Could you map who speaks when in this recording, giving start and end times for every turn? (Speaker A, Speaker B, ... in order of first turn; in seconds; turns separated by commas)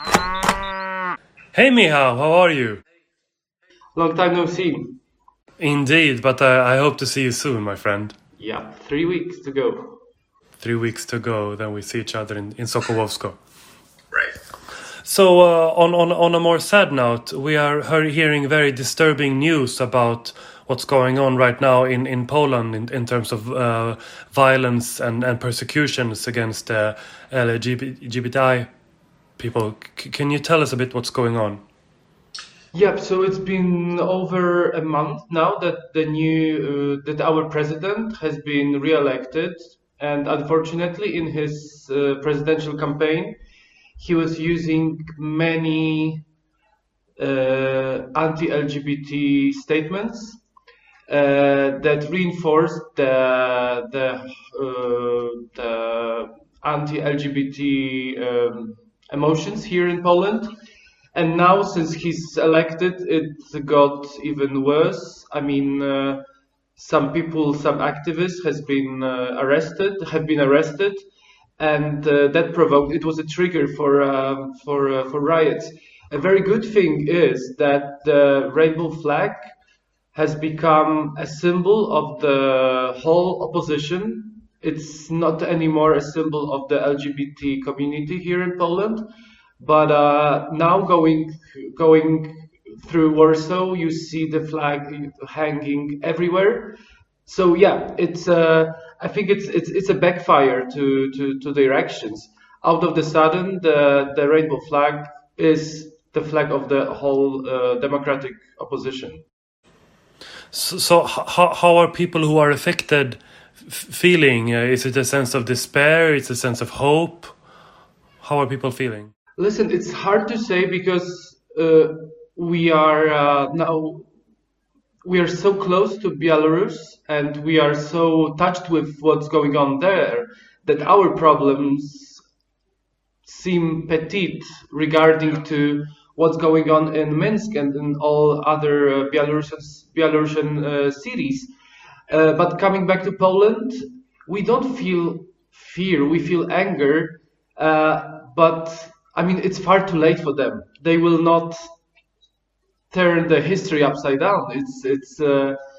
Speaker A: 1.5-2.8, Speaker B: 3.9-5.0, Speaker A: 5.6-8.1, Speaker B: 8.4-10.0, Speaker A: 10.6-13.3, Speaker A: 15.0-28.7, Speaker A: 29.4-31.6, Speaker B: 32.7-43.4, Speaker B: 44.0-46.2, Speaker B: 47.2-50.4, Speaker B: 51.1-60.5, Speaker B: 61.1-66.2, Speaker B: 66.8-71.1, Speaker B: 71.6-79.5, Speaker B: 80.1-89.1, Speaker B: 89.6-109.2, Speaker A: 110.5-117.3, Speaker A: 118.2-119.1, Speaker B: 119.4-124.1, Speaker B: 125.0-132.2, Speaker B: 133.2-141.5, Speaker B: 142.1-151.7, Speaker B: 152.9-155.6